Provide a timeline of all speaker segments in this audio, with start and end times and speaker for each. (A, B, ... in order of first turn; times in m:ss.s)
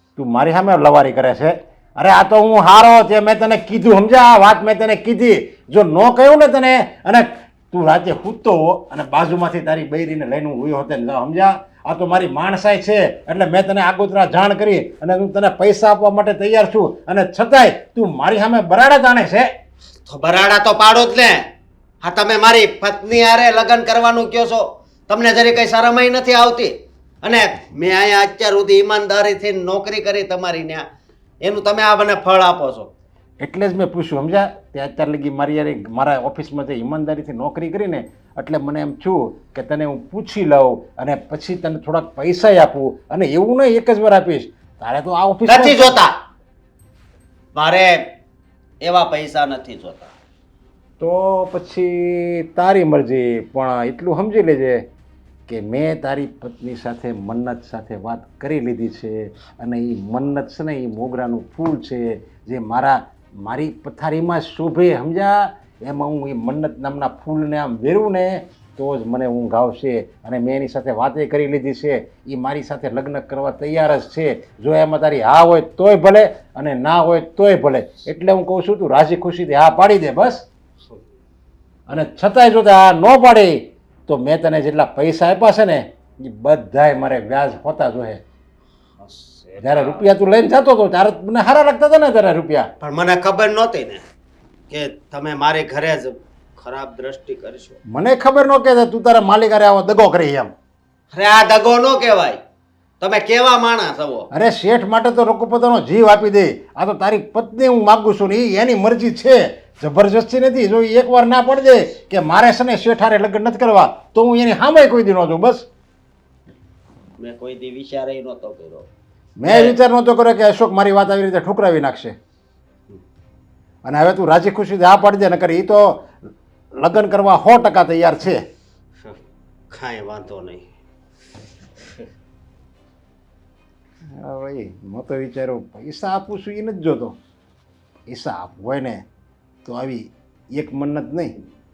0:00.2-0:19.5 A
0:20.0-0:21.5 B
0:22.0-0:30.8 B
0:31.4-0:32.9 B
0:33.4-0:46.1 A
0:45.5-0:46.2 B
0:47.5-0:48.0 B
0:48.8-0:50.1 B
0:51.0-0:54.8 A
0:55.5-1:20.5 A
1:20.8-1:21.0 B
1:21.9-1:28.2 A
1:29.0-1:30.1 B
1:29.6-1:32.7 A
1:32.8-1:34.0 B
1:34.7-1:37.8 B
1:37.9-1:40.5 A
1:41.1-1:42.4 B
1:43.0-1:44.3 B
1:44.3-1:55.7 A
1:57.2-1:58.9 B
1:59.4-2:02.2 A
1:59.4-1:59.8 B
2:03.8-2:06.1 A
2:06.8-2:08.4 A
2:09.7-2:10.7 B
2:14.2-2:17.2 A
2:18.1-2:19.0 A
2:19.6-2:21.3 A